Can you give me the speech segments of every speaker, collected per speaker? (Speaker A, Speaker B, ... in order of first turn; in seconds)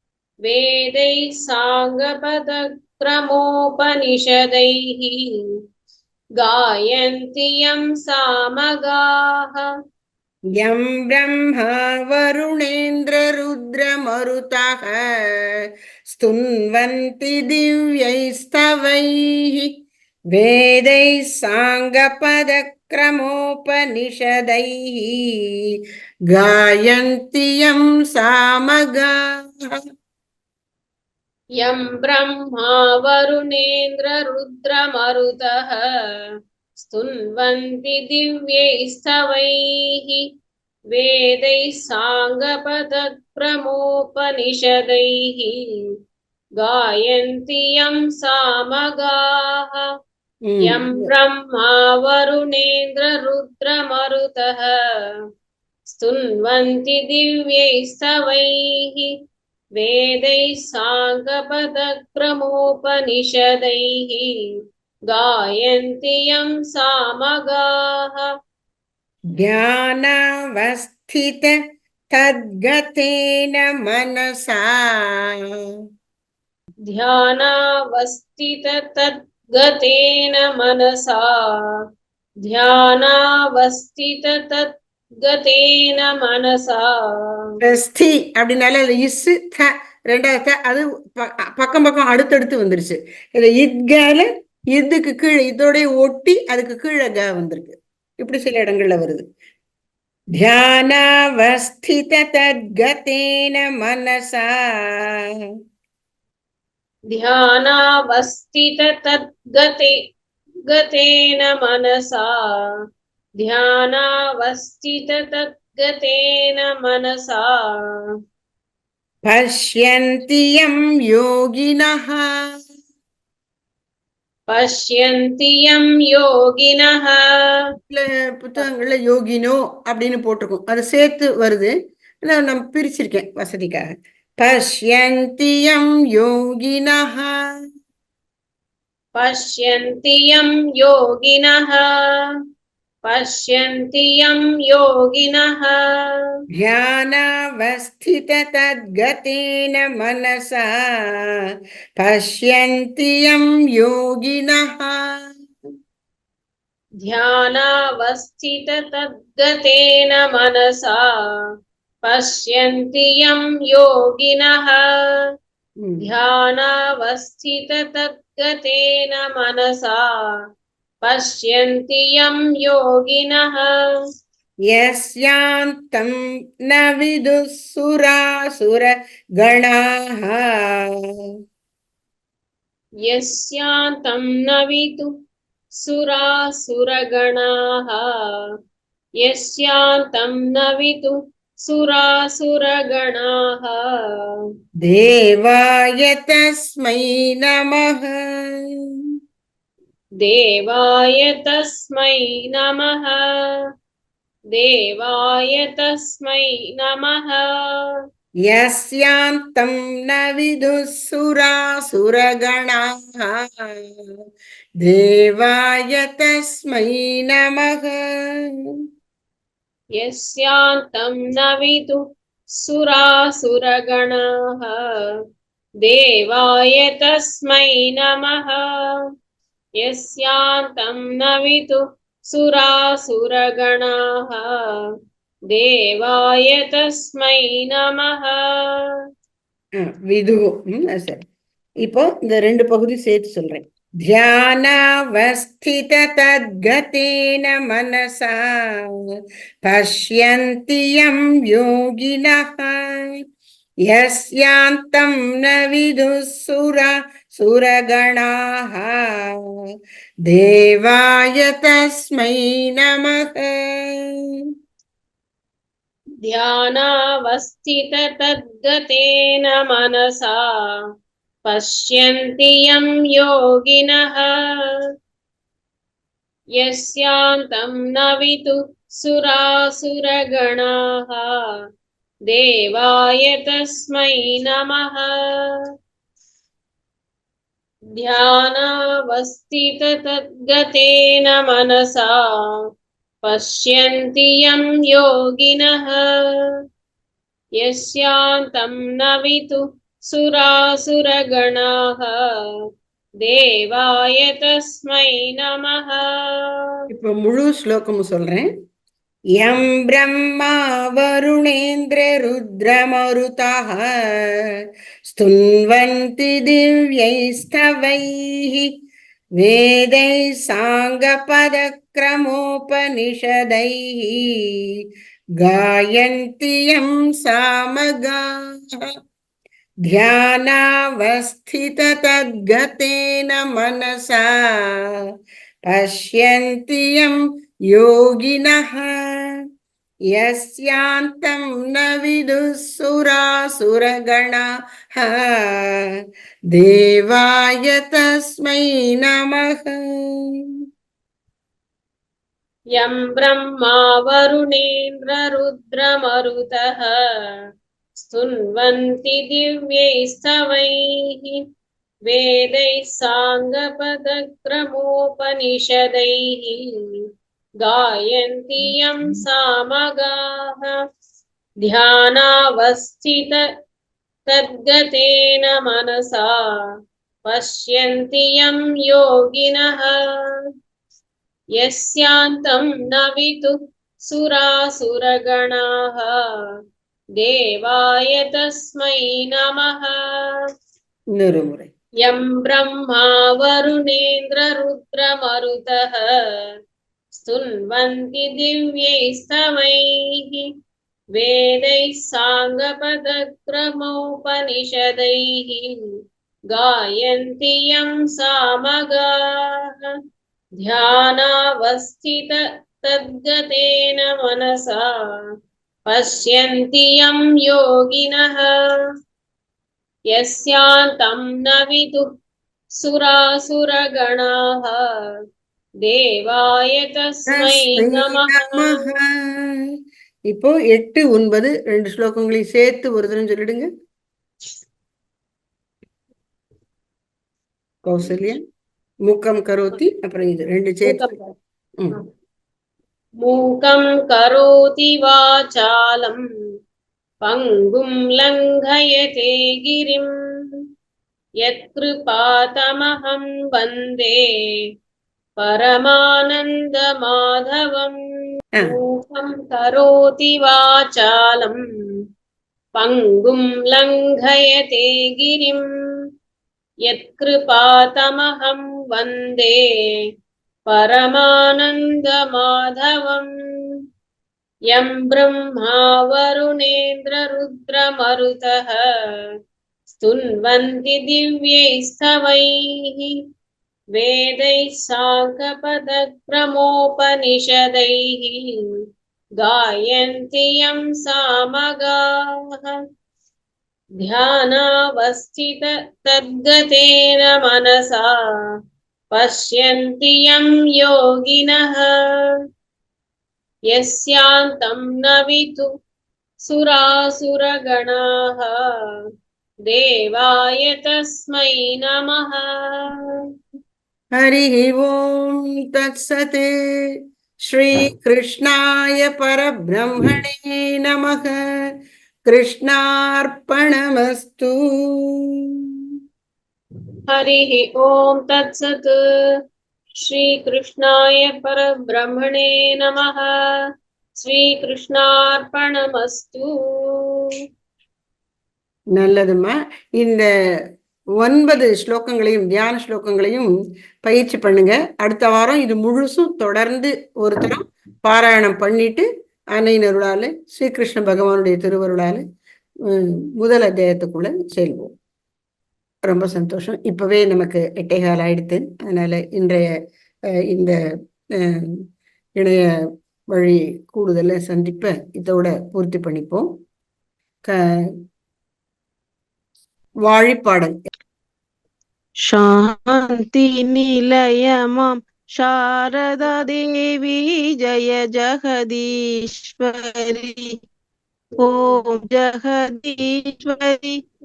Speaker A: 0.4-5.3, 6.4-9.7, 31.6-35.9, 36.8-40.2, 40.9-45.6, 46.6-49.9, 50.6-54.8, 55.9-59.1, 59.8-64.3, 65.1-68.3, 76.9-81.8, 82.4-87.5, 107.1-109.9, 110.7-112.6, 113.4-118.0, 124.5-127.6, 139.1-142.3, 143.0-145.8, 157.0-161.1, 162.0-164.9, 166.0-170.4, 171.0-173.7, 183.1-185.1, 185.8-188.3, 189.2-194.3, 200.2-203.6, 204.5-207.8, 220.0-222.0, 222.6-225.1, 225.8-229.0, 229.8-234.8, 235.5-238.9, 266.2-270.8, 271.5-274.4, 276.6-281.5, 282.3-285.2, 288.0-292.3, 293.2-296.1, 297.6-302.2, 303.2-306.8, 352.8-357.0, 358.0-361.4, 362.1-366.7, 367.6-370.8, 371.6-373.4, 374.3-376.5, 377.2-380.0, 381.6-383.6, 384.1-386.3, 387.2-390.0, 392.0-396.4, 397.1-400.5, 401.1-405.8, 406.5-409.9, 410.6-414.9, 415.9-418.6, 420.1-422.1, 422.8-424.9, 425.8-428.9, 440.9-441.3, 443.2-446.2, 447.2-450.1, 451.4-454.2, 455.4-458.0, 458.6-461.6, 462.8-465.7, 466.9-469.6, 470.7-473.3, 474.7-478.9, 479.9-483.2, 483.9-488.5, 489.4-492.8, 494.0-498.2, 499.1-502.2, 503.7-505.7, 506.4-508.6, 509.7-512.7, 527.1-529.0, 530.0-533.3, 534.2-537.3, 581.4-581.7
Speaker B: 10.6-19.7, 20.3-25.2, 26.3-29.1, 50.5-51.1, 69.4-71.5, 72.1-75.4, 87.6-99.2, 100.4-105.2, 119.2-122.3, 127.9-131.7, 132.2-133.8, 134.4-137.4, 146.6-151.3, 152.0-155.0, 174.7-181.0, 194.8-198.2, 208.5-213.8, 214.8-218.0, 239.8-241.2, 241.8-248.9, 249.7-252.9, 253.9-259.4, 260.3-264.1, 306.9-308.5, 309.4-314.3, 315.1-318.7, 319.4-324.2, 325.4-328.2, 329.9-334.8, 335.7-337.2, 337.7-339.0, 340.1-345.8, 346.5-350.3, 391.2-391.7, 427.3-429.5, 430.3-433.7, 437.9-438.4, 439.1-441.0, 514.2-516.5, 517.5-521.4, 522.2-525.1, 539.0-540.3, 541.2-543.5, 544.0-552.2, 552.9-554.9, 556.1-559.7, 560.5-560.8, 561.4-561.8, 562.4-562.7, 563.3-566.5, 570.0-570.8
Speaker C: 572.2-580.5, 581.4-584.0